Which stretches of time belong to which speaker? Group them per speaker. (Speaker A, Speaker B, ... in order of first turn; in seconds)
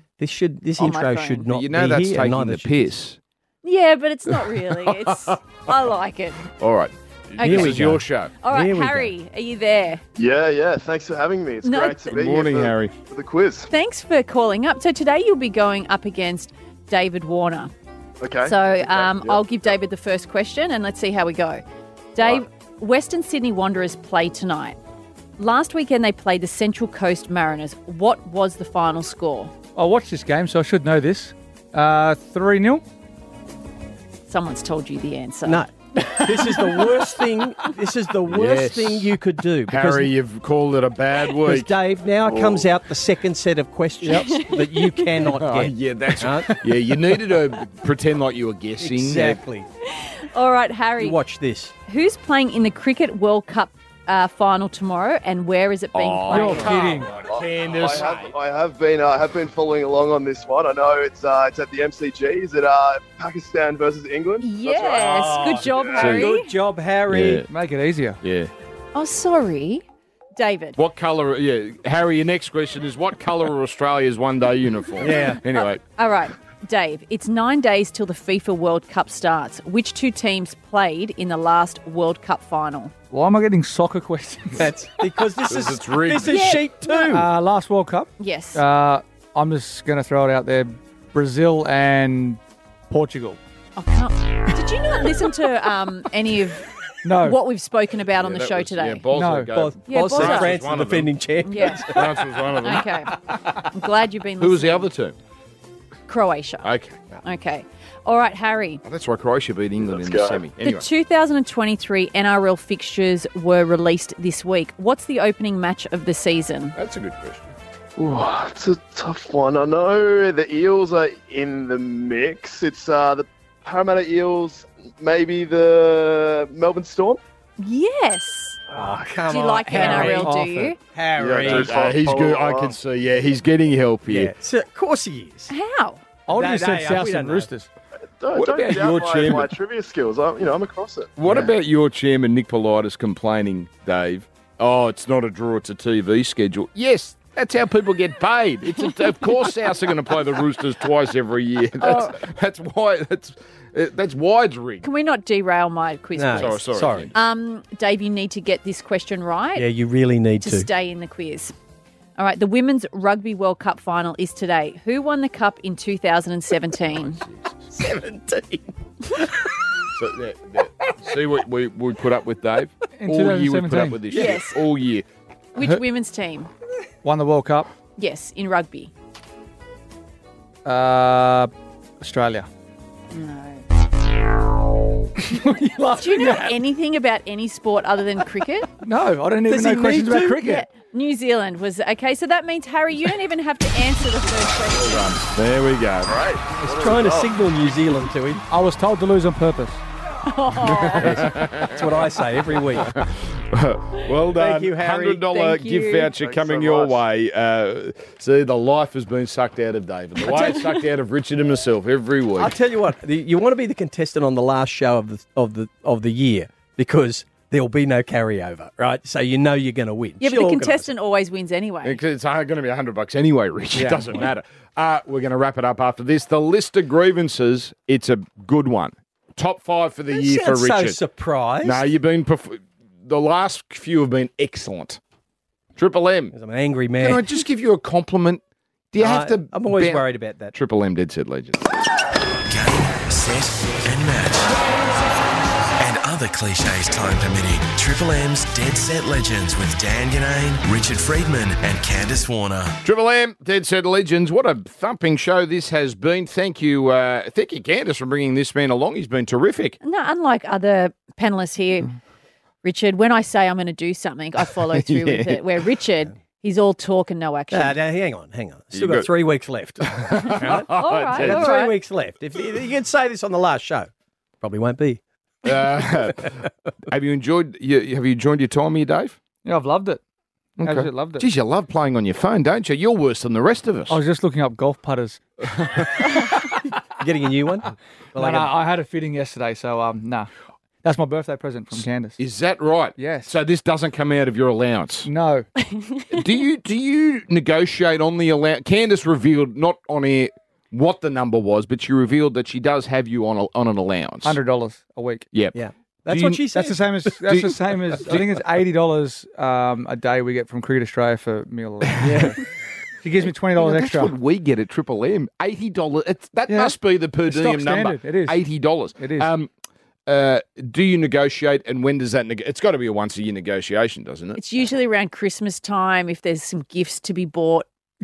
Speaker A: 0.2-2.9, 7.4-9.1, 35.4-40.1, 41.4-46.5, 48.8-49.7, 51.0-51.7, 65.0-67.5, 75.0-75.4, 84.6-87.2, 99.5-102.4, 128.8-130.3, 130.9-131.7, 134.1-135.5, 136.3-137.5, 156.2-157.1, 159.6-160.7, 167.7-169.5, 170.8-171.1, 189.5-190.4, 196.7-198.4, 201.7-202.9, 204.3-205.3, 212.4-220.9, 223.8-224.3, 230.1-231.8, 236.3-237.3, 239.0-240.6, 267.5-273.9, 274.4-275.0, 287.0-288.5, 305.5-307.2, 312.0-312.4
Speaker B: 0.8-1.4, 3.6-6.4, 7.4-10.0, 11.6-12.2, 13.7-17.7, 18.4-21.6, 22.2-24.8, 25.4-29.5, 34.3-37.1, 44.1-45.1, 49.9-51.2, 51.9-56.8, 64.4-66.5, 68.9-69.8, 70.4-70.8, 75.1-82.9, 86.2-87.2, 88.2-88.6, 93.8-99.1, 99.9-100.5, 101.5-104.9, 106.1-106.7, 107.2-108.8, 110.6-116.8, 127.6-128.6, 129.3-130.8, 135.5-136.1, 151.8-152.2, 154.8-159.7, 160.4-161.5, 162.2-167.2, 174.1-174.6, 175.6-176.5, 178.0-178.9, 183.1-183.7, 186.0-188.7, 190.4-195.1, 200.2-201.4, 205.3-206.1, 220.2-222.0, 259.8-261.9, 262.6-267.8, 270.7-271.8, 295.6-296.1, 324.4-327.7
Speaker C: 1.5-3.2, 4.7-5.3, 6.5-8.3, 12.1-12.9, 38.3-39.1, 39.7-41.7, 42.3-42.6, 45.2-49.4, 55.9-58.3, 65.2-66.3, 67.1-67.5, 68.2-68.5, 70.8-75.8, 85.5-86.5, 98.1-101.1, 101.9-103.1, 104.4-105.2, 106.6-107.0, 108.8-110.9, 116.8-117.5, 131.4-134.3, 138.3-139.5, 141.2-154.9, 156.3-157.1, 170.0-175.1, 194.9-196.1, 200.8-201.9, 202.7-212.6, 221.8-231.0, 231.6-235.0, 235.8-236.3, 237.0-241.6, 252.8-259.8, 264.7-265.6, 268.7-269.1, 269.9-271.5, 275.4-279.2, 280.6-284.0, 285.6-285.9, 292.2-295.1, 296.1-304.4, 306.1-306.5, 307.3-308.2, 313.6-319.5, 320.1-324.4
Speaker D: 10.2-13.7, 18.2-19.8, 57.2-65.3, 109.8-110.5, 118.0-127.2, 128.8-129.1, 131.2-132.8, 138.2-141.1, 196.0-197.3, 206.2-207.0
Speaker E: 29.8-32.8, 56.3-57.2, 67.5-68.2, 83.1-84.7, 87.1-93.4, 97.0-97.4, 99.1-99.5, 129.7-130.8, 136.3-137.7, 172.9-174.1, 177.0-177.7, 180.7-182.5, 185.3-186.6, 188.8-190.7, 198.5-199.8, 279.4-280.0, 280.6-281.3, 283.9-285.2, 288.1-290.3, 290.8-292.2, 293.0-293.4, 295.1-295.5, 304.2-305.3, 306.5-312.4, 313.0-314.1, 316.5-319.3
Speaker F: 242.5-244.5, 245.8-252.8